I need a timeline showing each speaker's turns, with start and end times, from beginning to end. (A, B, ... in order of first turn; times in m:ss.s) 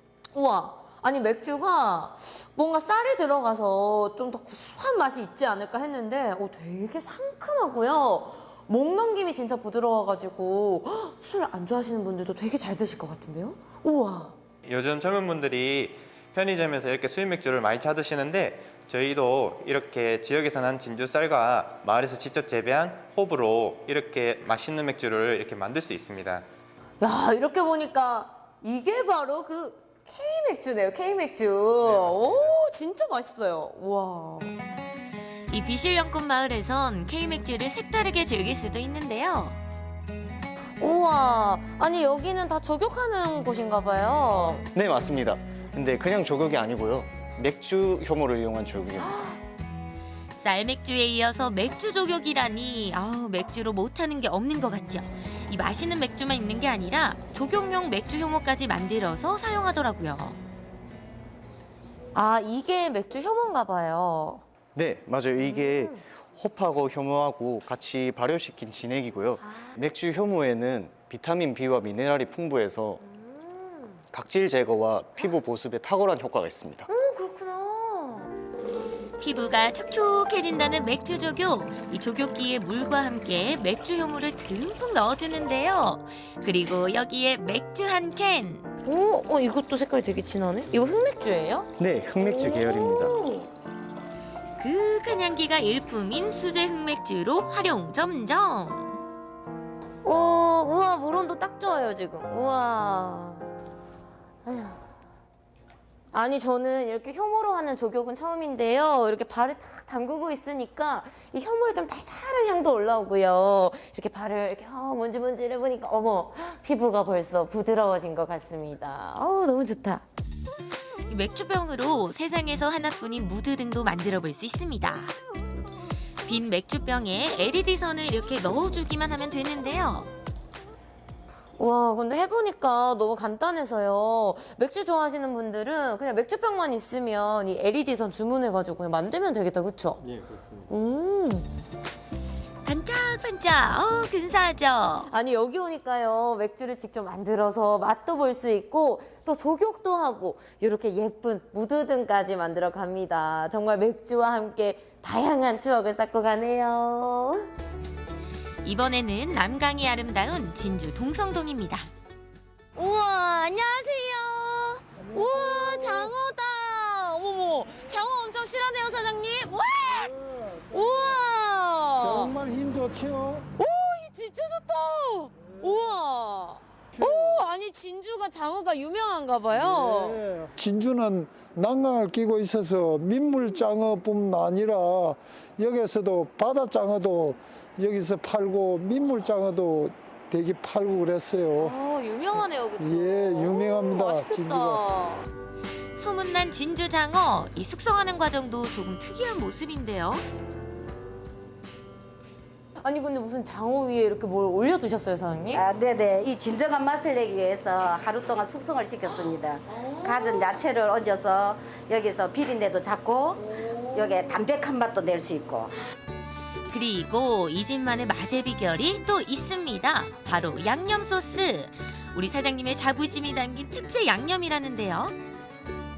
0:00.3-0:14.3 A
0:14.6-0:26.4 B
0:27.0-0:34.6 A
0:31.8-0:32.6 B
0:35.5-0:39.6 C
0:40.8-0:44.6 A
0:44.8-0:49.3 D
0:50.4-1:00.4 C
1:02.1-1:04.4 A
1:04.8-1:13.0 D
1:05.4-1:06.0 A
1:13.1-1:14.0 A
1:14.1-1:16.9 D
1:16.9-1:18.3 A
1:19.2-1:28.7 C
1:28.8-1:31.7 A
1:31.8-1:33.2 D
1:32.2-1:33.5 A
1:34.6-1:39.0 C
1:40.0-1:43.5 A
1:44.4-1:44.8 A
1:46.1-2:00.0 A
2:01.1-2:05.2 C
2:06.3-2:10.1 C
2:11.6-2:20.0 A
2:20.7-2:21.5 A
2:22.6-2:25.1 C
2:25.1-2:37.5 A
2:38.6-2:41.9 C
2:42.8-2:52.3 A
2:52.0-2:53.5 E
2:53.6-3:00.3 A
3:00.3-3:11.7 E
3:11.6-3:15.3 A
3:12.8-3:14.8 E
3:16.0-3:20.3 C
3:22.8-3:25.6 A
3:25.5-3:35.7 F
3:29.8-3:30.5 A
3:33.4-3:34.3 A
3:36.7-3:45.1 C